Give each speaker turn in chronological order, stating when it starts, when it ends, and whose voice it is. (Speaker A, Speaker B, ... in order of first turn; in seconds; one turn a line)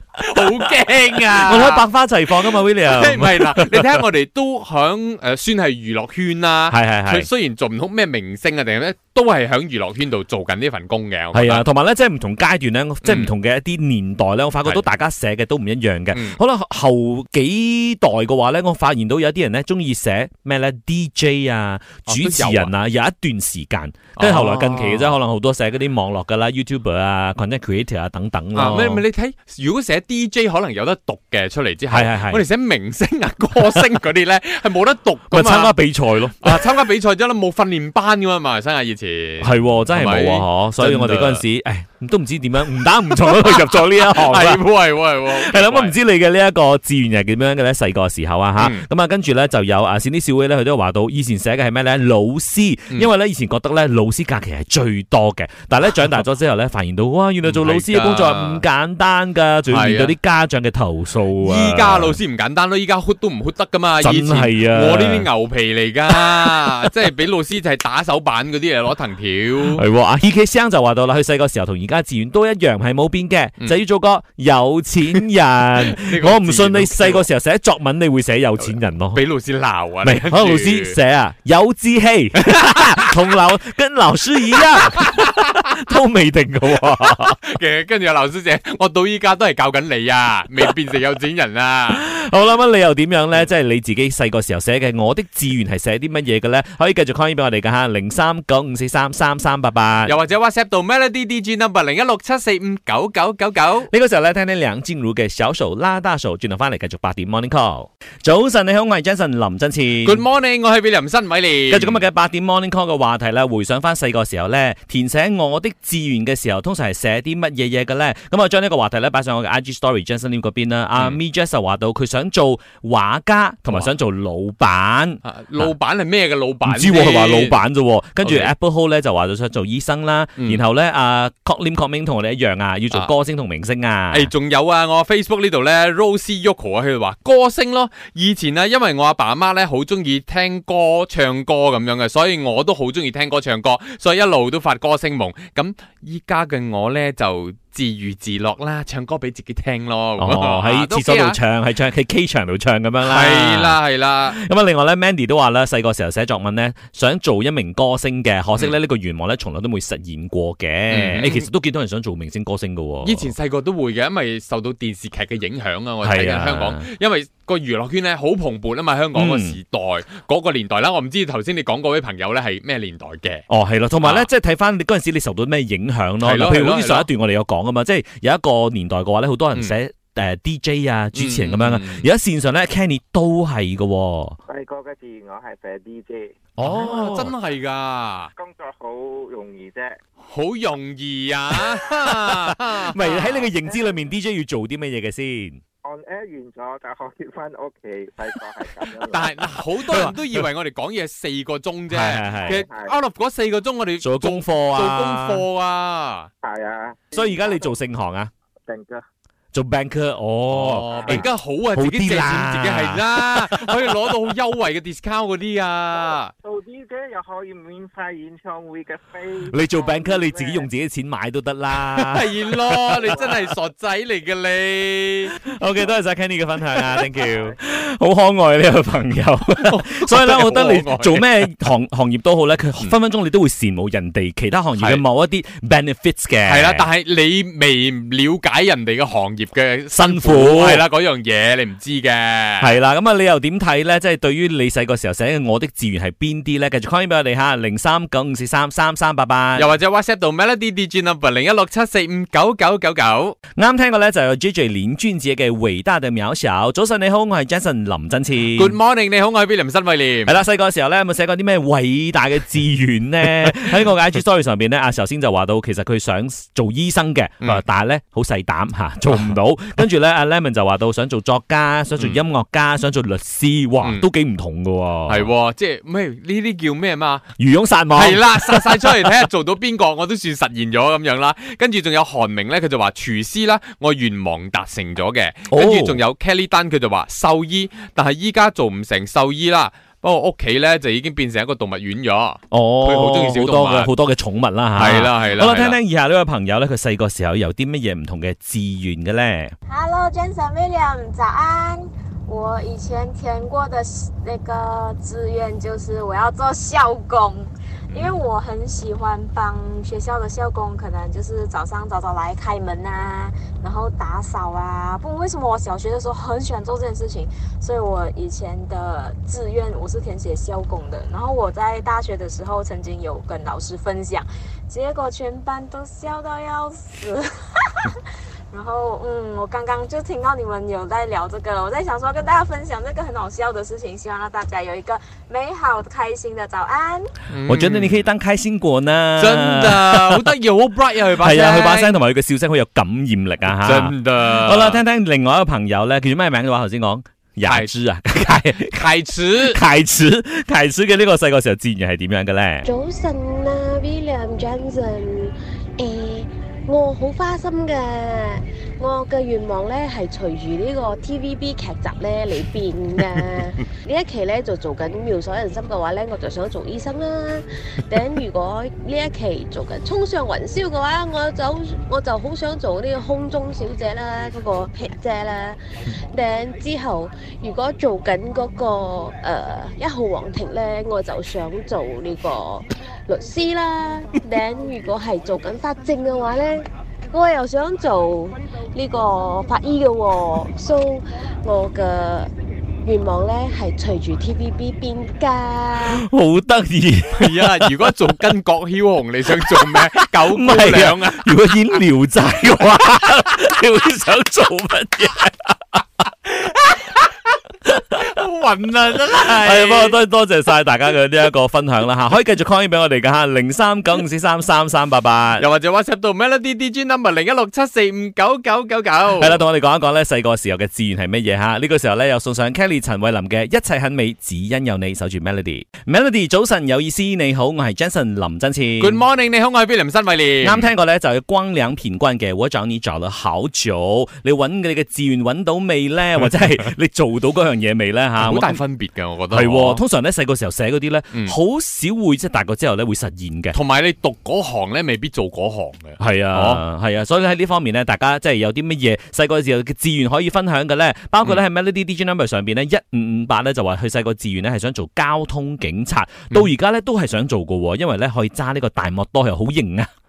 Speaker A: 0.2-1.8
Speaker B: 1.3-4.0
Speaker A: 2.5-11.6
Speaker B: 6.7-7.3
Speaker B: 11.3-29.0
Speaker A: 13.0-13.3
Speaker A: 16.1-16.4
Speaker A: 22.1-22.7
Speaker A: 24.2-25.1
Speaker A: 28.5-35.8
Speaker B: 31.9-32.4
Speaker B: 35.3-36.6
Speaker A: 36.4-41.4
Speaker B: 39.4-44.6
Speaker A: 43.3-46.0
Speaker B: 45.2-62.2
Speaker A: 48.6-48.9
Speaker A: 57.4-58.6
Speaker A: 59.7-60.1
Speaker A: 61.4-69.8
Speaker B: 64.0-65.3
Speaker B: 66.2-66.6
Speaker B: 69.7-79.2
Speaker A: 75.8-77.3
Speaker A: 78.6-81.0
Speaker B: 80.0-87.4
Speaker A: 84.9-85.4
Speaker A: 87.4-92.0
Speaker B: 91.9-100.1
Speaker A: 100.0-103.9
Speaker B: 103.9-110.2
Speaker A: 110.0-112.0
Speaker B: 111.7-125.7
Speaker A: 125.2-127.6
Speaker B: 126.7-134.3
Speaker A: 128.2-128.5
Speaker A: 130.4-130.6
Speaker A: 134.1-151.4
Speaker B: 150.2-153.8
Speaker A: 153.0-154.4
Speaker B: 154.3-163.3
Speaker A: 160.9-161.5
Speaker A: 163.0-173.4
Speaker B: 166.0-166.9
Speaker B: 169.1-169.6
Speaker B: 173.5-184.4
Speaker A: 174.0-174.3
Speaker A: 176.2-177.1
Speaker A: 181.1-182.1
Speaker C: 184.5-187.3
Speaker B: 186.6-187.3
Speaker A: 186.6-188.3
Speaker C: 188.3-190.0
Speaker A: 190.3-193.5
Speaker B: 192.8-195.6
Speaker C: 195.8-199.5
Speaker A: 198.9-206.3
Speaker B: 199.8-200.2
Speaker B: 201.9-202.6
Speaker C: 202.6-202.9
Speaker B: 204.0-205.4
Speaker C: 206.4-207.5
Speaker B: 207.1-208.3
Speaker C: 208.7-209.0
Speaker B: 209.5-213.6
Speaker A: 210.5-216.3
Speaker C: 210.9-211.2
Speaker C: 216.1-220.7
Speaker B: 219.5-223.3
Speaker A: 222.0-225.3
Speaker B: 225.4-236.8
Speaker A: 229.5-231.2
Speaker A: 234.8-235.0
Speaker A: 236.4-242.7
Speaker B: 239.9-240.8
Speaker B: 242.6-249.7
Speaker A: 249.6-253.4
Speaker B: 253.6-258.7
Speaker A: 258.5-260.3
Speaker B: 260.2-275.3
Speaker A: 272.0-272.2
Speaker A: 273.8-274.1
Speaker A: 275.1-277.3
Speaker B: 277.4-279.1
Speaker A: 277.9-293.9
Speaker B: 285.5-286.0
Speaker B: 292.5-299.5
Speaker A: 294.7-295.8
Speaker D: 299.7-337.1
Speaker A: 307.9-308.2
Speaker A: 337.3-338.1
Speaker B: 337.5-340.3
Speaker A: 339.2-342.0
Speaker B: 341.1-348.9
Speaker A: 343.6-344.8
Speaker A: 347.4-347.7
Speaker A: 348.6-349.6
Speaker B: 349.4-352.7
Speaker E: 352.6-392.3
Speaker E: 392.8-396.0
Speaker B: 395.9-397.8
Speaker A: 397.1-401.3
Speaker B: 399.5-405.8
Speaker A: 406.3-407.1
Speaker A: 407.9-410.0
Speaker B: 409.3-415.4
Speaker A: 415.4-419.4
Speaker B: 419.2-429.0
Speaker A: 428.8-430.7
Speaker B: 430.4-438.6
Speaker A: 438.2-439.8
Speaker B: 439.3-443.6
Speaker A: 443.5-446.6
Speaker B: 446.0-459.9